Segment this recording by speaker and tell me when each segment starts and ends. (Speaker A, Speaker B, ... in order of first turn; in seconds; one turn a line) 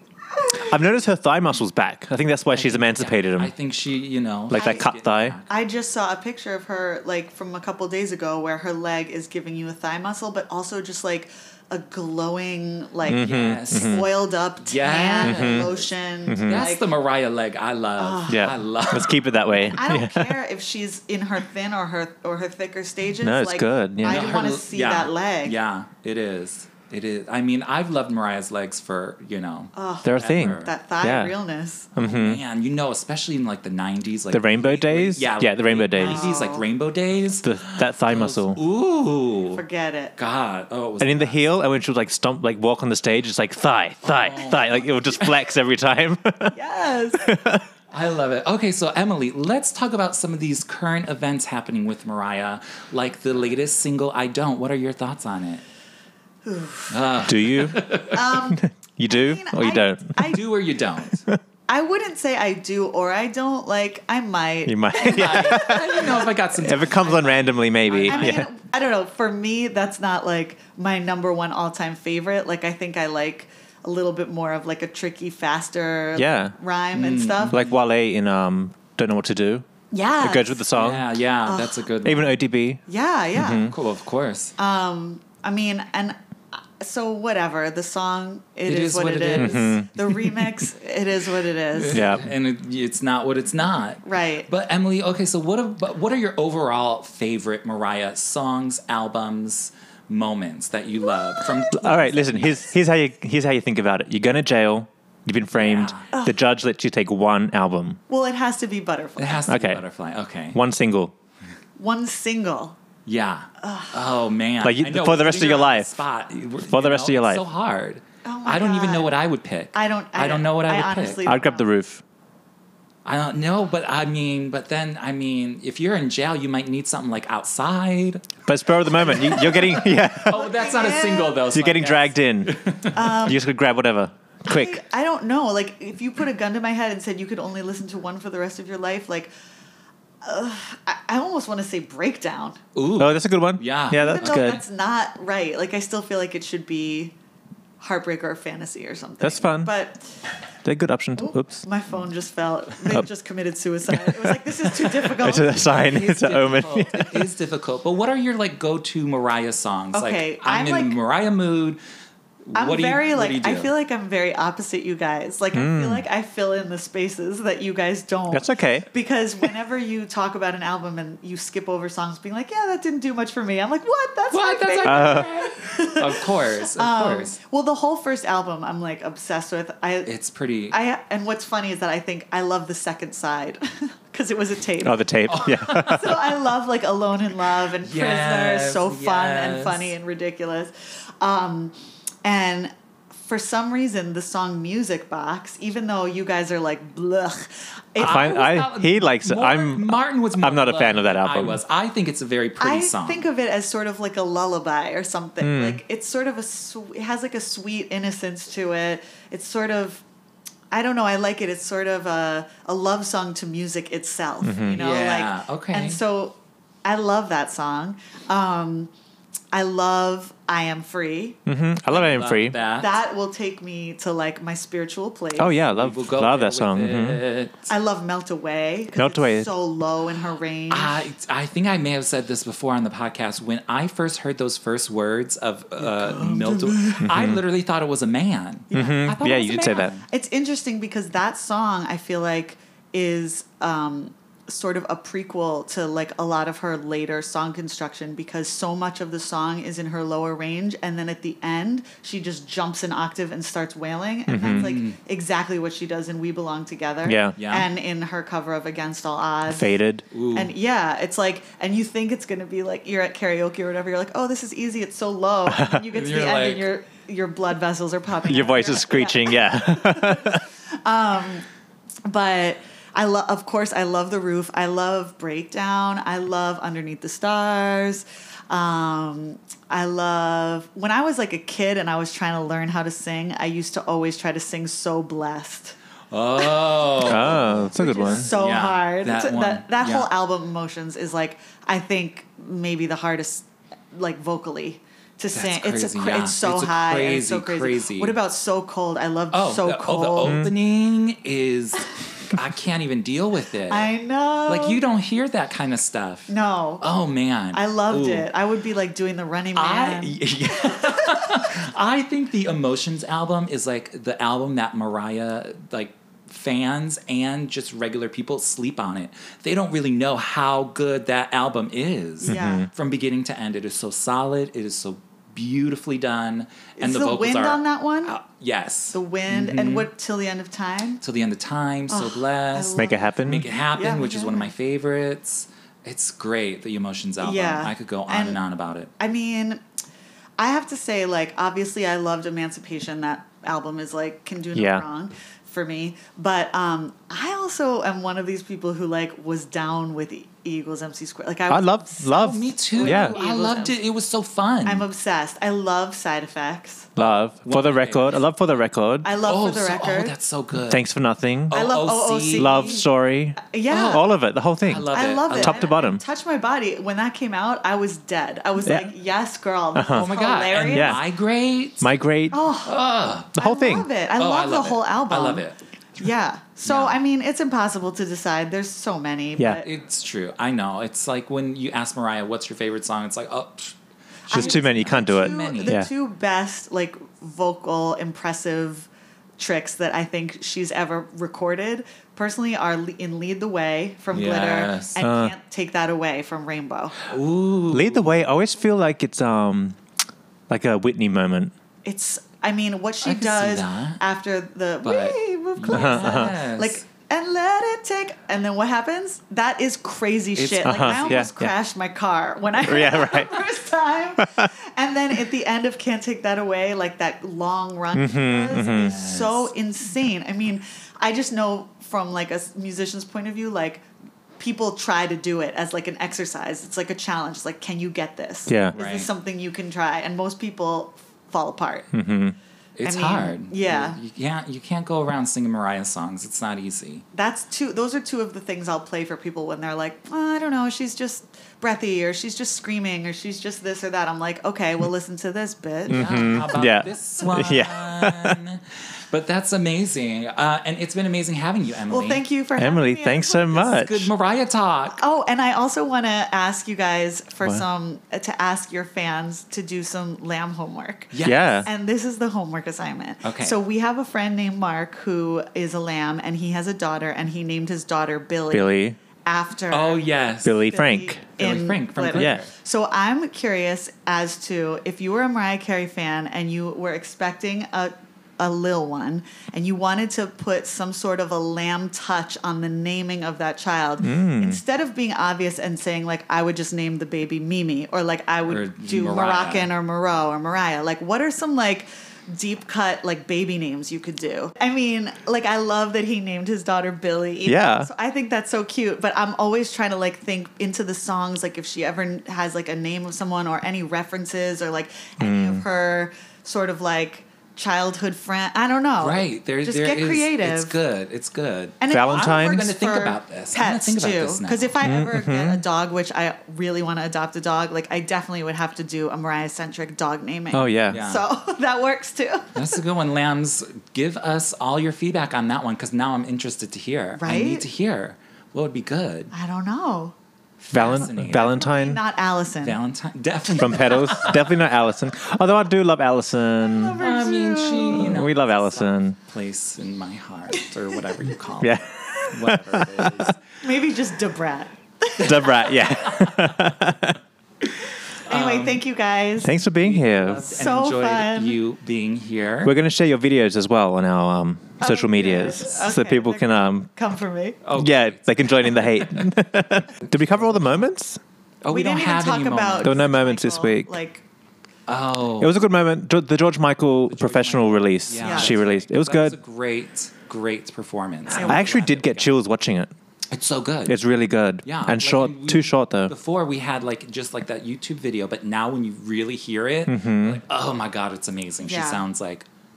Speaker A: 0.6-3.5
Speaker B: 2.5-5.4
Speaker A: 4.5-5.4
Speaker C: 4.5-4.9
Speaker C: 5.5-16.9
Speaker A: 13.1-14.1
Speaker B: 13.1-14.1
Speaker B: 14.6-15.9
Speaker A: 15.2-15.7
Speaker A: 16.3-16.7
Speaker B: 16.4-19.6
Speaker C: 18.0-18.5
Speaker A: 18.3-20.4
Speaker C: 19.6-25.6
Speaker A: 23.2-24.3
Speaker B: 24.1-30.7
Speaker C: 29.7-31.9
Speaker A: 30.0-31.3
Speaker A: 31.9-32.4
Speaker B: 32.0-39.6
Speaker A: 34.3-36.3
Speaker C: 36.0-36.6
Speaker A: 37.4-38.6
Speaker C: 39.5-40.1
Speaker B: 40.2-41.4
Speaker A: 41.0-46.5
Speaker B: 44.0-45.5
Speaker C: 46.5-47.4
Speaker A: 47.1-47.6
Speaker B: 47.9-55.6
Speaker C: 56.4-57.0
Speaker B: 56.9-58.3
Speaker A: 57.3-60.3
Speaker C: 58.0-60.5
Speaker B: 60.2-61.2
Speaker C: 61.7-66.3
Speaker A: 64.7-68.5
Speaker B: 65.0-68.5
Speaker C: 68.0-77.6
Speaker A: 76.2-76.5
Speaker B: 76.9-77.7
Speaker A: 77.5-79.7
Speaker C: 79.9-80.6
Speaker A: 80.2-81.1
Speaker B: 80.7-82.4
Speaker C: 81.4-81.8
Speaker A: 82.0-82.8
Speaker C: 82.9-83.7
Speaker A: 83.3-83.7
Speaker B: 83.7-84.5
Speaker C: 84.6-86.2
Speaker C: 86.8-92.0
Speaker B: 88.7-89.8
Speaker A: 89.3-90.5
Speaker B: 91.7-102.6
Speaker A: 91.9-92.3
Speaker C: 94.0-94.5
Speaker A: 101.7-108.0
Speaker B: 105.5-106.1
Speaker C: 106.1-106.4
Speaker C: 108.1-109.5
Speaker B: 109.2-110.6
Speaker A: 109.5-109.8
Speaker A: 110.5-111.1
Speaker C: 111.8-112.8
Speaker B: 113.0-121.2
Speaker C: 113.6-114.0
Speaker A: 114.6-115.9
Speaker A: 116.7-117.4
Speaker C: 118.2-119.2
Speaker C: 119.7-121.7
Speaker A: 121.2-122.0
Speaker B: 123.0-128.3
Speaker A: 128.4-130.4
Speaker C: 129.0-131.4
Speaker B: 129.0-133.3
Speaker A: 131.5-132.6
Speaker C: 132.9-133.4
Speaker A: 133.2-134.8
Speaker C: 134.4-139.3
Speaker C: 140.2-142.6
Speaker B: 142.7-144.6
Speaker A: 143.0-144.6
Speaker C: 143.9-147.1
Speaker C: 147.8-150.1
Speaker A: 149.2-149.7
Speaker A: 150.6-151.6
Speaker C: 151.2-155.7
Speaker A: 153.9-157.3
Speaker B: 155.5-161.8
Speaker C: 159.9-161.0
Speaker B: 162.5-163.7
Speaker C: 162.6-180.1
Speaker A: 165.5-166.0
Speaker A: 168.3-168.9
Speaker B: 174.3-177.4
Speaker A: 174.8-175.3
Speaker B: 180.1-180.8
Speaker C: 180.7-198.3
Speaker A: 184.8-186.2
Speaker B: 185.3-186.2
Speaker B: 187.8-189.9
Speaker B: 198.0-203.2
Speaker A: 198.0-201.6
Speaker C: 202.6-210.0
Speaker A: 205.4-205.8
Speaker C: 210.7-218.9
Speaker A: 214.4-214.8
Speaker B: 214.8-216.0
Speaker C: 219.5-221.4
Speaker A: 221.4-222.6
Speaker B: 221.9-222.9
Speaker C: 222.8-225.6
Speaker A: 225.4-227.2
Speaker B: 225.7-227.7
Speaker C: 227.7-231.1
Speaker A: 228.9-229.5
Speaker B: 230.7-240.0
Speaker C: 235.8-237.1
Speaker A: 237.0-237.4
Speaker A: 238.7-239.9
Speaker C: 238.7-259.8
Speaker A: 254.3-254.7
Speaker B: 254.5-255.0
Speaker A: 257.1-257.4
Speaker B: 257.4-257.7
Speaker A: 259.5-260.0
Speaker B: 260.1-260.5
Speaker C: 260.3-271.4
Speaker A: 265.5-265.8
Speaker B: 265.9-266.7
Speaker A: 268.3-270.4
Speaker C: 272.1-285.8
Speaker B: 286.1-290.1
Speaker A: 287.0-288.3
Speaker C: 287.1-300.4
Speaker B: 295.3-298.2
Speaker B: 299.3-303.9
Speaker A: 300.2-300.5
Speaker C: 303.7-304.8
Speaker B: 304.5-308.3
Speaker C: 306.3-306.9
Speaker C: 307.5-311.3
Speaker B: 309.6-329.9
Speaker C: 322.2-322.7
Speaker A: 322.3-322.7
Speaker C: 326.8-328.1
Speaker C: 328.9-331.0
Speaker B: 331.0-338.9
Speaker C: 331.9-334.5
Speaker A: 332.8-333.5
Speaker C: 337.2-338.4
Speaker C: 339.0-339.6
Speaker C: 340.4-353.8
Speaker A: 344.6-344.8
Speaker A: 351.5-353.2
Speaker B: 352.1-354.9
Speaker C: 354.6-356.9
Speaker A: 357.0-359.1
Speaker B: 357.0-358.3
Speaker C: 359.0-360.1
Speaker B: 359.2-360.8
Speaker A: 360.7-361.6
Speaker B: 361.5-362.8
Speaker C: 361.5-364.1
Speaker A: 362.3-366.0
Speaker B: 363.7-364.1
Speaker B: 364.6-365.7
Speaker C: 364.9-371.0
Speaker A: 368.6-368.9
Speaker A: 369.7-370.1
Speaker B: 369.9-371.9
Speaker A: 370.6-371.0
Speaker A: 371.8-372.4
Speaker C: 372.3-372.8
Speaker B: 372.6-373.4
Speaker C: 373.3-375.4
Speaker A: 373.3-373.9
Speaker B: 374.2-375.6
Speaker C: 376.0-379.7
Speaker B: 376.6-377.0
Speaker A: 379.4-379.6
Speaker B: 379.6-383.7
Speaker B: 384.3-385.8
Speaker C: 384.3-396.9
Speaker A: 384.3-385.9
Speaker B: 394.1-394.9
Speaker A: 395.0-395.3
Speaker B: 397.1-398.2
Speaker A: 397.7-399.8
Speaker A: 400.5-401.5
Speaker C: 401.8-423.8
Speaker B: 403.0-404.0
Speaker B: 404.8-406.8
Speaker A: 405.7-406.3
Speaker B: 410.4-411.3
Speaker A: 410.6-411.5
Speaker A: 412.6-413.4
Speaker A: 414.2-414.5
Speaker A: 417.9-418.9
Speaker B: 418.5-419.5
Speaker C: 424.4-431.9
Speaker A: 428.5-428.7
Speaker B: 428.7-429.1
Speaker A: 431.9-432.4
Speaker B: 432.8-437.1
Speaker C: 432.8-434.0
Speaker C: 437.1-446.6
Speaker A: 445.9-448.4
Speaker B: 445.9-452.2
Speaker C: 451.9-453.8
Speaker A: 452.6-454.1
Speaker B: 453.6-455.0
Speaker C: 454.9-510.8
Speaker B: 461.1-461.6
Speaker A: 461.2-461.7
Speaker B: 463.2-463.6
Speaker A: 468.5-469.0
Speaker B: 469.7-470.6
Speaker A: 470.4-471.2
Speaker B: 471.4-472.5
Speaker A: 472.1-472.4
Speaker A: 484.0-484.6
Speaker B: 488.5-489.7
Speaker A: 497.4-497.9
Speaker A: 505.2-505.6
Speaker B: 509.0-514.7
Speaker C: 511.8-522.6
Speaker A: 511.9-512.7
Speaker A: 514.8-515.6
Speaker A: 520.5-521.0
Speaker B: 520.9-521.2
Speaker B: 522.5-529.3
Speaker C: 527.2-527.6
Speaker C: 529.3-532.8
Speaker B: 530.7-531.5
Speaker A: 530.7-532.0
Speaker B: 532.6-534.6
Speaker A: 533.5-537.0
Speaker C: 536.6-538.2
Speaker B: 537.0-543.4
Speaker A: 537.9-539.1
Speaker A: 541.6-543.3
Speaker C: 543.6-545.7
Speaker A: 545.2-547.2
Speaker B: 546.1-546.5
Speaker B: 548.3-548.8
Speaker C: 548.3-549.5
Speaker A: 549.4-550.4
Speaker B: 549.8-552.7
Speaker C: 550.5-551.6
Speaker A: 552.6-556.9
Speaker C: 554.8-557.6
Speaker B: 557.6-559.3
Speaker A: 557.8-561.2
Speaker B: 560.0-560.8
Speaker B: 561.6-563.0
Speaker C: 561.7-564.2
Speaker A: 562.8-563.9
Speaker B: 564.9-565.5
Speaker A: 565.4-569.4
Speaker B: 567.1-572.3
Speaker C: 568.2-568.6
Speaker C: 571.3-571.7
Speaker A: 571.3-572.9
Speaker B: 573.3-574.0
Speaker A: 573.9-576.1
Speaker B: 574.6-582.5
Speaker A: 579.9-580.4
Speaker C: 581.6-582.0